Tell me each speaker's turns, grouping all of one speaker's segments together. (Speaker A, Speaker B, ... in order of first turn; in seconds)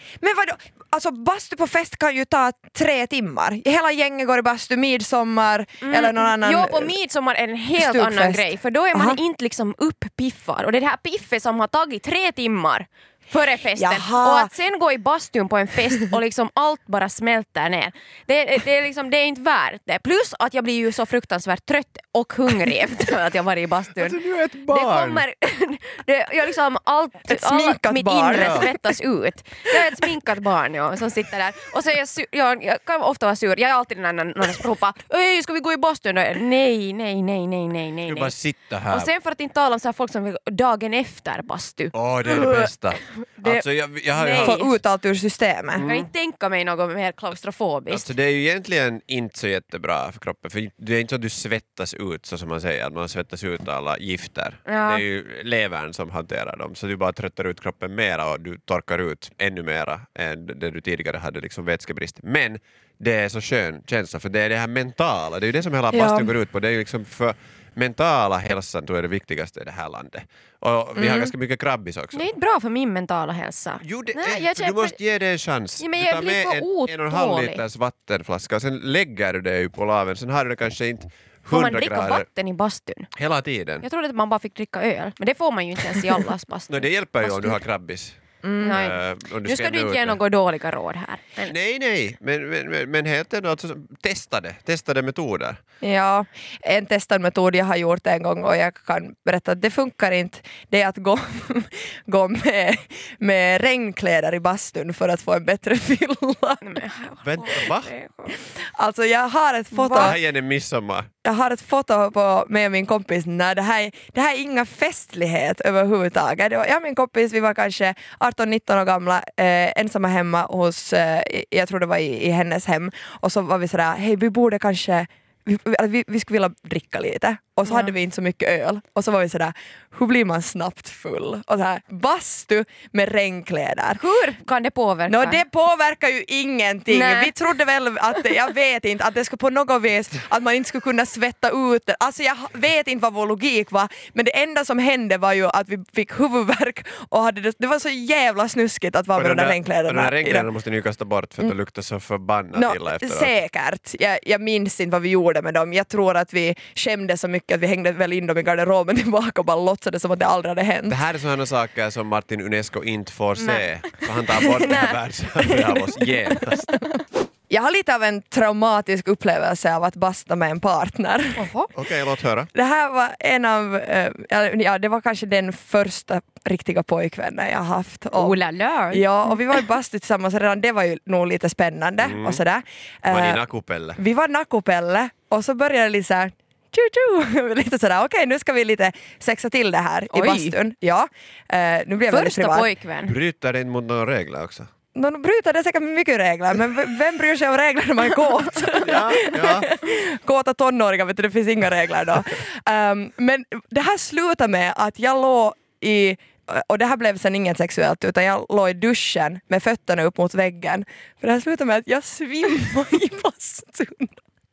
Speaker A: 0.2-7.0, 7.8-9.2, 13.8-14.5, 27.3-28.9, 43.4-43.7, 44.3-45.9, 65.9-66.3, 88.4-88.8, 95.8-106.7, 108.3-110.2, 111.2-134.0, 135.1-150.5, 152.5-161.0, 164.3-164.8, 165.4-165.8, 167.5-171.5, 172.6-178.4, 178.9-183.4, 184.0-192.7, 194.9-214.2
Speaker B: 5.8-38.4, 38.9-42.7, 44.1-44.8, 45.8-48.1, 54.7-55.0, 71.0-71.3, 72.1-75.0, 75.8-77.6, 81.5-83.1, 83.8-87.6, 88.6-91.5, 106.6-108.4, 109.7-110.2, 127.7-127.9, 133.9-135.4, 136.9-137.3, 163.4-163.9, 171.4-171.7, 178.1-179.6, 190.1-190.6, 192.1-193.2
Speaker C: 24.0-25.2, 28.4-28.7, 38.0-39.1, 41.9-44.6, 45.8-46.1, 47.9-72.3, 73.8-82.3, 83.2-83.9, 86.7-90.2, 91.4-95.6, 107.2-107.9, 110.0-111.1, 149.2-153.3, 160.9-166.8, 171.8-172.5, 182.0-182.4, 183.1-184.0, 193.0-194.7, 198.8-199.7